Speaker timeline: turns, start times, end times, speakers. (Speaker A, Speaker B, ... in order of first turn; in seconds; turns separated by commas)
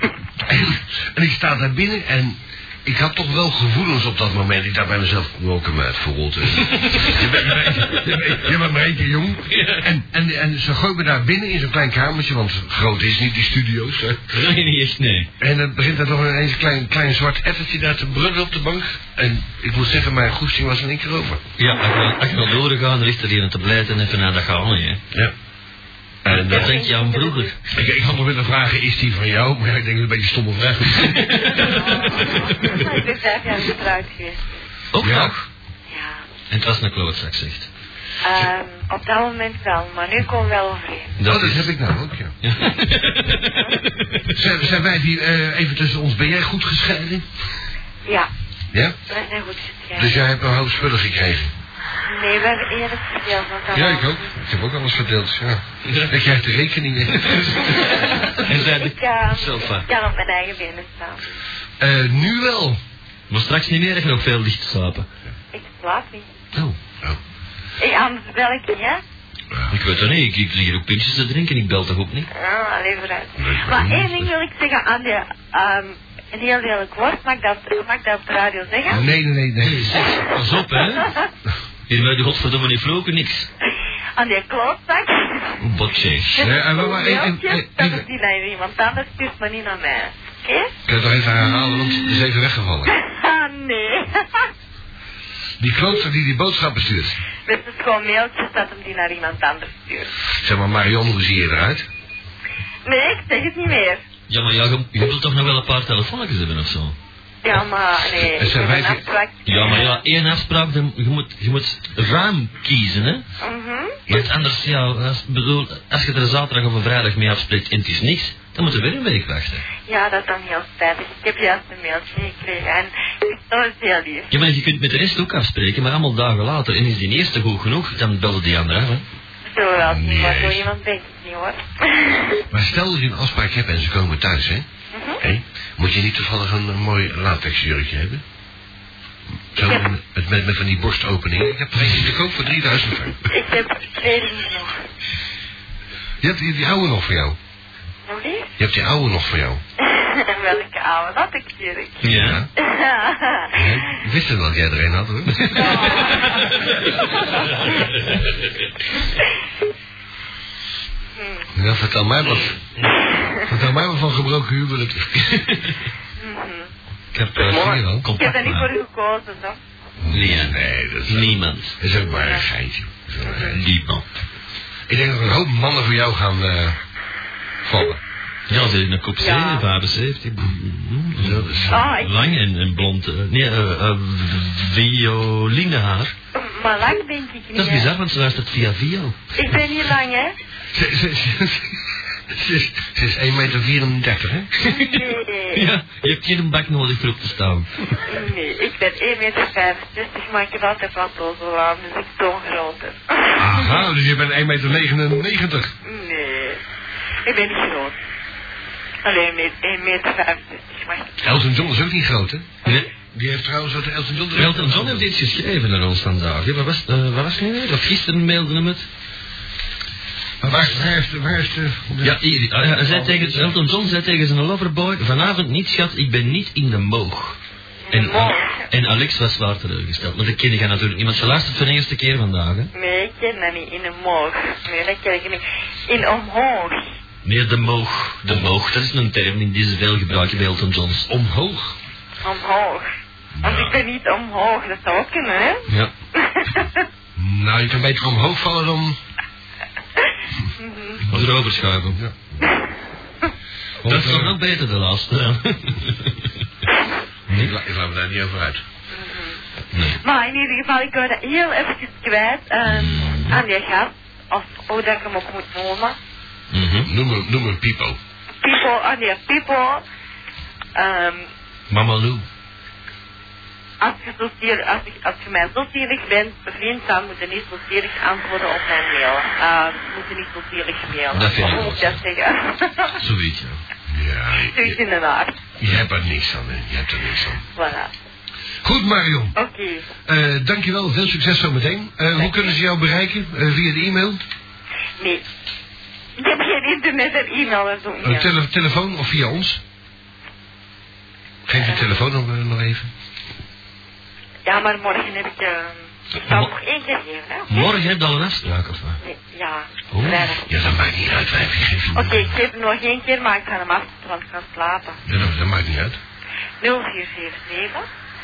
Speaker A: 0.4-14.2, Speaker B: 6.7-8.4, Speaker B: 9.5-9.8, Speaker B: 14.3-15.3, Speaker A: 15.4-21.4, Speaker B: 21.6-25.0, Speaker A: 26.2-26.7, Speaker B: 26.3-27.5, Speaker C: 26.5-27.6, Speaker A: 27.7-31.7, Speaker B: 31.1-31.9, Speaker C: 31.6-34.4, Speaker B: 34.9-35.5, Speaker A: 35.0-35.3, Speaker C: 35.9-36.2, Speaker B: 36.5-37.7, Speaker C: 38.2-41.2, Speaker B: 41.2-41.7, Speaker A: 41.2-42.4, Speaker B: 42.4-44.3, Speaker C: 43.4-43.8, Speaker A: 44.3-47.3, Speaker A: 48.7-49.0, Speaker C: 49.1-50.1, Speaker A: 50.0-51.5, Speaker C: 52.0-54.3, Speaker A: 53.7-58.3, Speaker B: 55.9-56.1, Speaker C: 58.2-61.3, Speaker B: 58.3-59.9, Speaker A: 61.8-62.8, Speaker B: 63.3-65.1, Speaker C: 65.5-66.3, Speaker C: 67.8-69.0, Speaker A: 69.5-69.8, Speaker B: 69.7-72.3, Speaker C: 72.3-79.1, Speaker A: 73.4-74.3, Speaker A: 78.9-80.1, Speaker B: 79.6-81.1, Speaker C: 80.9-81.3, Speaker B: 81.9-83.5, Speaker C: 84.2-85.6, Speaker B: 85.6-86.4, Speaker A: 86.3-88.0, Speaker C: 86.3-90.7, Speaker A: 90.9-93.0, Speaker C: 92.9-94.5, Speaker A: 95.6-97.2, Speaker C: 97.5-100.1, Speaker A: 100.4-101.9, Speaker C: 102.8-104.0, Speaker B: 104.3-107.0, Speaker C: 107.4-110.0, Speaker A: 108.1-109.1, Speaker B: 109.5-113.2, Speaker C: 113.4-114.0, Speaker B: 114.1-119.7, Speaker C: 119.9-124.3, Speaker B: 124.3-129.0, Speaker C: 129.5-132.4, Speaker A: 129.8-130.7, Speaker A: 132.5-134.7, Speaker C: 134.9-135.2, Speaker A: 135.2-138.2, Speaker A: 139.5-143.3, Speaker C: 143.3-144.8, Speaker A: 146.2-147.4, Speaker C: 148.1-148.5, Speaker A: 148.6-149.6, Speaker C: 149.8-152.1, Speaker B: 152.0-152.4, Speaker A: 152.1-152.5, Speaker C: 152.6-153.7, Speaker A: 153.5-156.1, Speaker B: 155.3-158.2, Speaker C: 155.6-156.5, Speaker C: 157.2-157.5, Speaker C: 161.2-161.5, Speaker A: 161.6-162.6, Speaker C: 163.2-163.4, Speaker A: 163.4-165.3, Speaker B: 165.2-165.8, Speaker C: 166.2-166.7, Speaker B: 167.1-168.7, Speaker A: 167.3-168.1, Speaker C: 168.2-169.6, Speaker A: 170.0-173.7, Speaker B: 170.1-171.8, Speaker C: 172.0-172.5, Speaker B: 173.3-174.1, Speaker A: 174.9-176.8, Speaker A: 177.6-178.0, Speaker B: 178.5-186.1, Speaker C: 179.2-179.7, Speaker A: 181.2-182.0, Speaker C: 181.7-182.2, Speaker C: 186.3-187.9, Speaker B: 187.6-189.2, Speaker C: 189.3-190.4, Speaker A: 190.7-194.5, Speaker B: 194.6-195.0, Speaker C: 194.7-195.7, Speaker B: 195.5-198.1, Speaker C: 198.1-203.9, Speaker A: 203.4-205.7, Speaker C: 205.8-206.6, Speaker C: 207.2-208.0, Speaker C: 209.0-211.2, Speaker A: 211.2-212.5, Speaker A: 213.1-215.1, Speaker B: 214.3-218.9, Speaker A: 220.4-223.6, Speaker B: 222.0-227.4, Speaker C: 227.9-228.6, Speaker B: 227.9-232.7, Speaker C: 232.7-236.9, Speaker B: 237.2-241.1, Speaker A: 241.1-241.8, Speaker C: 242.2-242.9, Speaker A: 243.3-243.8, Speaker C: 243.4-246.8, Speaker A: 247.2-249.0, Speaker C: 250.6-251.0, Speaker B: 251.1-252.0, Speaker A: 252.0-252.4, Speaker A: 253.8-254.4, Speaker B: 253.8-256.3, Speaker A: 257.3-258.6, Speaker C: 258.9-259.4, Speaker B: 259.7-260.0, Speaker C: 260.0-266.0, Speaker B: 262.6-263.4, Speaker B: 266.5-266.9, Speaker A: 266.9-268.0, Speaker C: 268.4-269.8, Speaker C: 270.8-271.3, Speaker B: 271.7-272.3, Speaker C: 273.8-283.0, Speaker B: 281.1-282.0, Speaker B: 283.0-283.6, Speaker A: 283.9-284.8, Speaker C: 284.4-285.4, Speaker A: 285.6-287.4, Speaker C: 287.6-287.9, Speaker A: 288.6-289.4, Speaker C: 289.4-289.9, Speaker A: 290.1-294.2, Speaker C: 292.1-292.6, Speaker C: 296.2-298.3, Speaker A: 298.0-299.6, Speaker A: 301.5-302.9, Speaker C: 301.6-301.9, Speaker C: 304.5-307.7, Speaker B: 306.3-306.5, Speaker B: 307.5-309.0, Speaker C: 309.0-310.5, Speaker B: 309.9-310.3, Speaker A: 310.5-312.3, Speaker C: 311.9-315.0, Speaker A: 315.1-316.0, Speaker C: 316.6-317.9